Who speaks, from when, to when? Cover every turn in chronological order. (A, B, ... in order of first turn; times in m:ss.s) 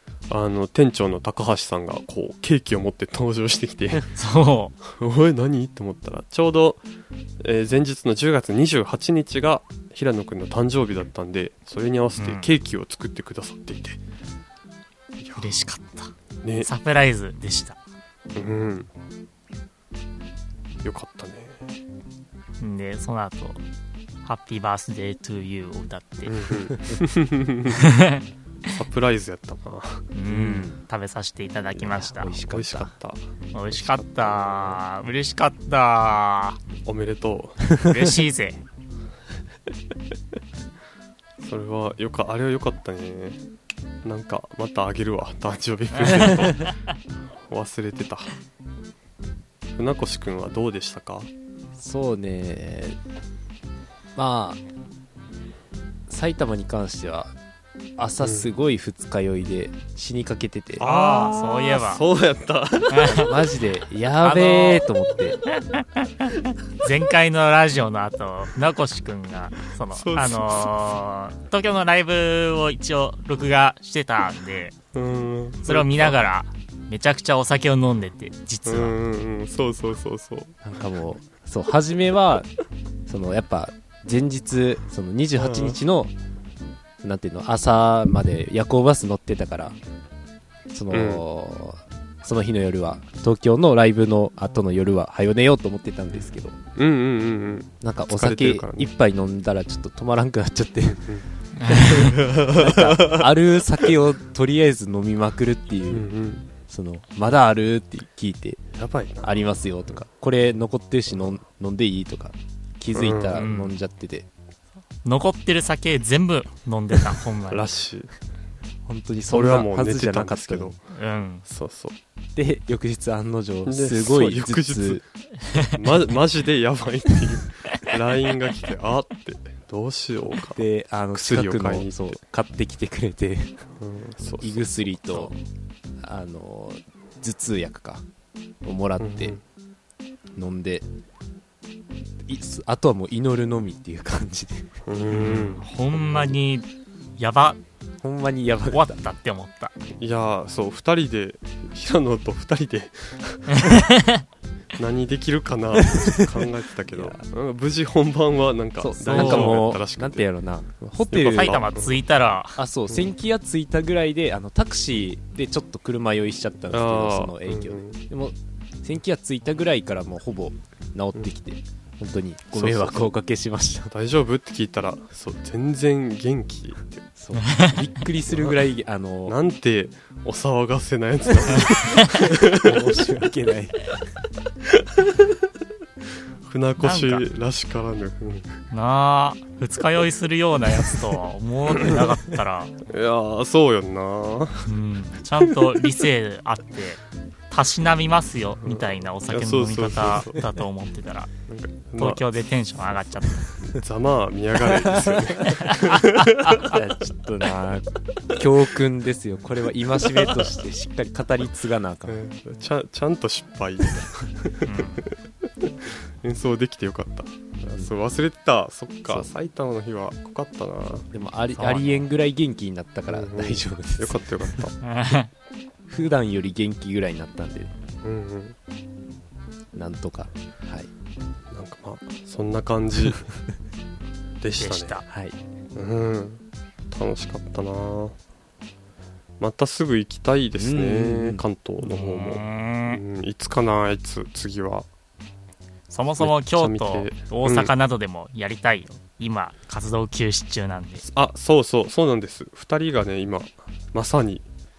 0:00.3-0:04.1 A
0:04.1-0:04.8 B
0:04.8-0:06.8 A
0:07.4-0:14.0 A
0:12.2-0:12.5 B
0:15.2-0:15.6 A
0:15.4-0:17.8 B
0:16.4-0:16.7 A
0:18.3-0:18.9 A
0:20.8-0:21.6 A
0:22.6-0:23.6 B
0:24.2-0:26.5 B
0:26.2-0:27.8 A
0:27.7-0:28.2 B
0:28.7-0:30.1 A
0:30.1-0:32.4 B
0:30.3-0:30.8 C
0:31.8-0:32.9 C
0:32.4-0:33.2 A
0:33.5-0:36.6 B
0:33.7-0:34.8 A
0:36.8-0:37.7 A
0:37.7-0:38.2 C
0:37.8-0:38.6 B
0:41.4-0:43.4 A
0:44.0-0:46.7 A
0:45.9-0:46.8 B
0:47.5-0:48.3 A
0:49.8-0:51.3 A
0:51.8-0:53.0 C
0:54.2-0:54.6 C
0:56.1-0:57.3 C
0:58.0-1:00.9 C
0:58.2-0:58.5 A
1:00.8-1:03.2 A
1:00.8-1:02.0 B
1:02.9-1:03.3 B
1:03.0-1:05.4 C
1:04.2-1:04.9 B
1:05.5-1:14.8 B
1:09.9-1:10.7 A
1:14.9-1:16.2 A
1:15.7-1:19.0 B
1:18.7-1:20.5 A
1:20.6-1:22.5 C
1:23.1-1:26.1 C
1:25.4-1:25.8 A
1:27.0-1:29.8 C
1:30.7-1:36.6 C
1:30.9-1:31.2 A
1:36.8-1:38.9 A
1:37.8-1:46.1 C
1:41.6-1:42.2 B
1:41.9-1:43.8 A
1:45.9-1:46.5 A
1:46.7-1:48.6 C
1:48.8-1:49.4 A
1:49.2-1:54.3 C
1:52.9-1:53.4 A
1:53.3-1:53.7 B
1:55.0-1:57.7 B
1:57.5-1:58.1 A
1:58.9-2:00.8 C
1:59.3-2:00.8 A
2:00.9-2:01.4 B
2:01.5-2:02.0 A
2:02.4-2:05.0 C
2:03.7-2:05.0 A
2:05.6-2:12.2 A
2:10.5-2:13.5 C
2:13.8-2:15.3 A
2:14.4-2:15.3 C
2:16.0-2:18.0 C
2:18.6-2:19.4 C
2:19.0-2:19.4 A
2:20.4-2:20.8 C
2:22.3-2:24.7 C
2:24.9-2:26.3 A
2:25.1-2:26.7 B
2:27.2-2:27.6 B
2:28.0-2:29.0 C
2:28.7-2:29.7 B
2:30.0-2:33.8 A
2:33.5-2:34.2 B
2:34.8-2:40.3 A
2:35.9-2:37.2 C
2:38.8-2:41.6 C
2:39.1-2:39.6 B
2:41.1-2:42.0 A
2:41.2-2:42.6 B
2:42.6-2:53.9 C
2:46.7-2:48.0 A
2:52.5-2:53.1 A
2:53.9-2:57.1 A
2:57.2-2:59.4 C
2:57.4-2:57.9 B
2:58.3-2:58.6 A
2:59.3-3:02.8 A
3:01.5-3:04.0 C
3:04.7-3:05.2 A
3:06.5-3:08.6 A
3:06.8-3:07.3 B
3:08.7-3:12.7 B
3:12.9-3:14.7 A
3:14.7-3:17.0 B
3:17.5-3:21.3 B
3:18.6-3:20.5 A
3:21.5-3:22.2 A
3:22.0-3:23.5 B
3:23.6-3:26.8 A
3:24.9-3:25.3 C
3:26.6-3:32.2 C
3:30.1-3:30.4 A
3:32.1-3:41.1 A
3:34.7-3:35.0 B
3:41.1-3:44.6 C
3:41.6-3:42.1 B
3:43.1-3:44.8 A
3:44.8-3:45.3 B
3:45.9-3:47.7 C
3:48.0-3:48.6 A
3:49.7-3:50.9 C
3:51.5-3:53.3 A
3:54.4-3:55.0 A
3:54.6-3:55.0 B
3:55.1-3:55.4 C
3:55.8-3:58.2 A
3:59.4-4:04.9 A
4:00.6-4:01.4 C
4:01.8-4:03.0 B
4:05.9-4:11.1 B
4:06.2-4:07.7 A
4:11.1-4:14.5 A